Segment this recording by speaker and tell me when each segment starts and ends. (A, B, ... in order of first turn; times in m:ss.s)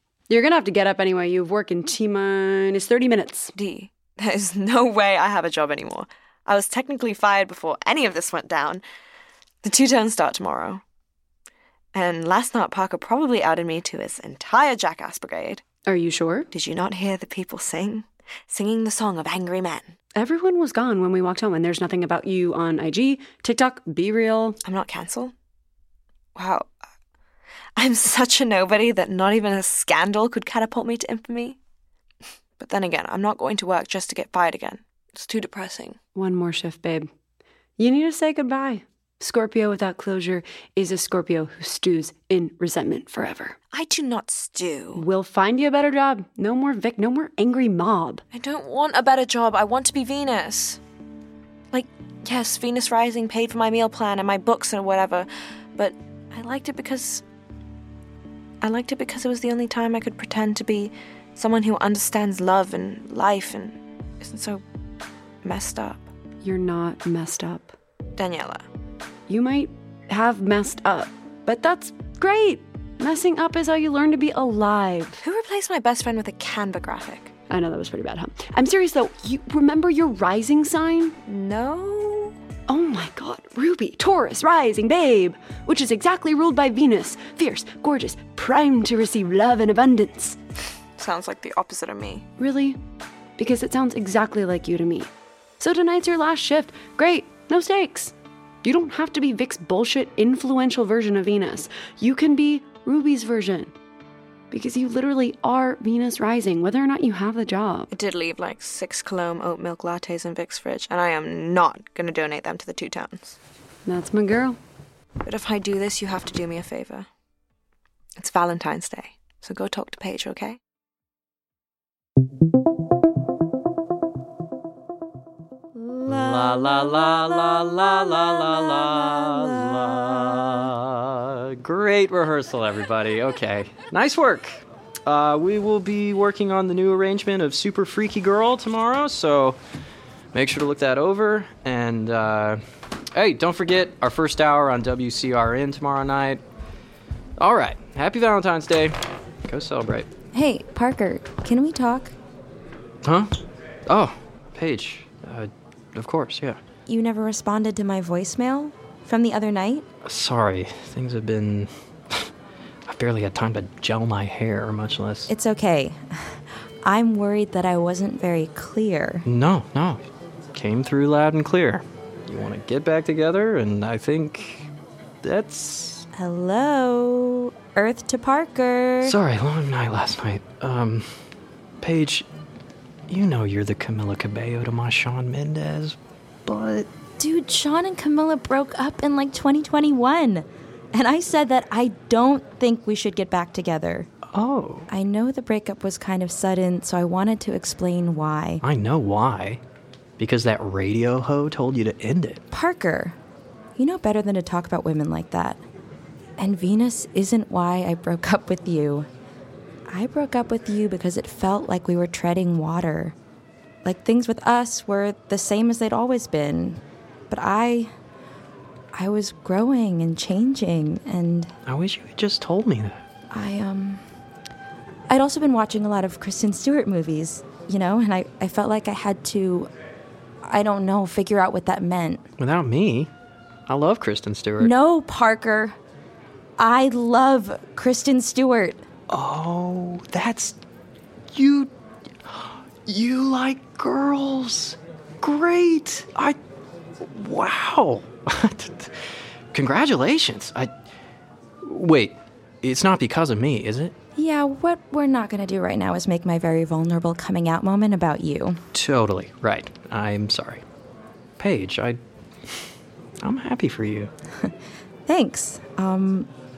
0:00.3-0:03.5 A
0:03.6-0:08.8 B
0:09.6-0:10.8 B
0:12.0-0:15.6 B
0:15.9-0:16.5 A
0:16.5-0:19.9 B
0:20.2-0:24.6 A
0:24.6-0:25.3 B
0:26.4-0:26.7 B
0:27.8-0:31.6 B
0:32.6-0:36.0 B
0:36.2-0:37.1 A
0:37.8-0:43.6 A
0:43.7-0:45.0 B
0:45.0-0:48.2 A
0:48.3-0:50.8 B
0:51.7-0:57.2 B
0:58.6-1:04.6 B
1:05.4-1:06.1 B
1:06.4-1:07.7 A
1:08.2-1:08.7 B
1:09.3-1:15.2 A
1:15.2-1:17.3 B
1:17.5-1:21.1 A
1:21.2-1:22.4 B
1:22.7-1:30.4 A
1:31.0-1:32.2 B
1:32.4-1:32.8 A
1:33.4-1:35.1 A
1:35.6-1:43.7 A
1:44.5-1:47.9 A
1:47.9-1:53.4 B
1:53.9-1:54.6 A
1:55.2-1:57.1 B
1:58.2-2:00.6 B
2:05.8-2:07.7 C
2:06.0-2:19.6 D
2:20.3-2:22.6 D
2:23.2-2:26.4 D
2:27.4-2:30.1 D
2:30.3-2:32.1 C
2:33.0-2:33.3 D
2:33.9-2:36.6 D
2:36.9-2:39.9 C
2:40.0-2:42.3 D
2:42.9-2:45.3 D
2:45.3-2:49.3 C
2:49.3-2:54.7 D
2:55.2-2:56.1 D
2:56.2-2:59.2 C
2:59.0-3:01.2 D
3:01.8-3:02.3 D
3:03.1-3:06.9 D
3:07.2-3:14.1 C
3:14.3-3:14.9 D
3:14.9-3:18.6 C
3:18.6-3:19.6 D
3:20.2-3:22.4 D
3:22.5-3:23.2 C
3:23.8-3:25.6 C
3:26.4-3:29.1 C
3:29.9-3:33.2 C
3:33.8-3:37.9 C
3:38.9-3:41.5 C
3:41.7-3:43.0 D
3:43.3-3:44.0 C
3:45.1-3:49.7 C
3:50.4-3:52.2 C
3:52.4-3:53.1 D
3:53.7-3:54.7 D
3:54.6-3:55.8 C
3:56.6-3:58.8 C
3:59.1-4:00.6 D
4:01.3-4:01.7 D
4:02.2-4:06.4 D
4:07.0-4:10.7 D
4:11.6-4:14.0 D
4:14.2-4:18.6 C
4:18.7-4:20.6 D
4:21.4-4:22.7 D
4:23.2-4:24.1 D
4:25.1-4:26.3 C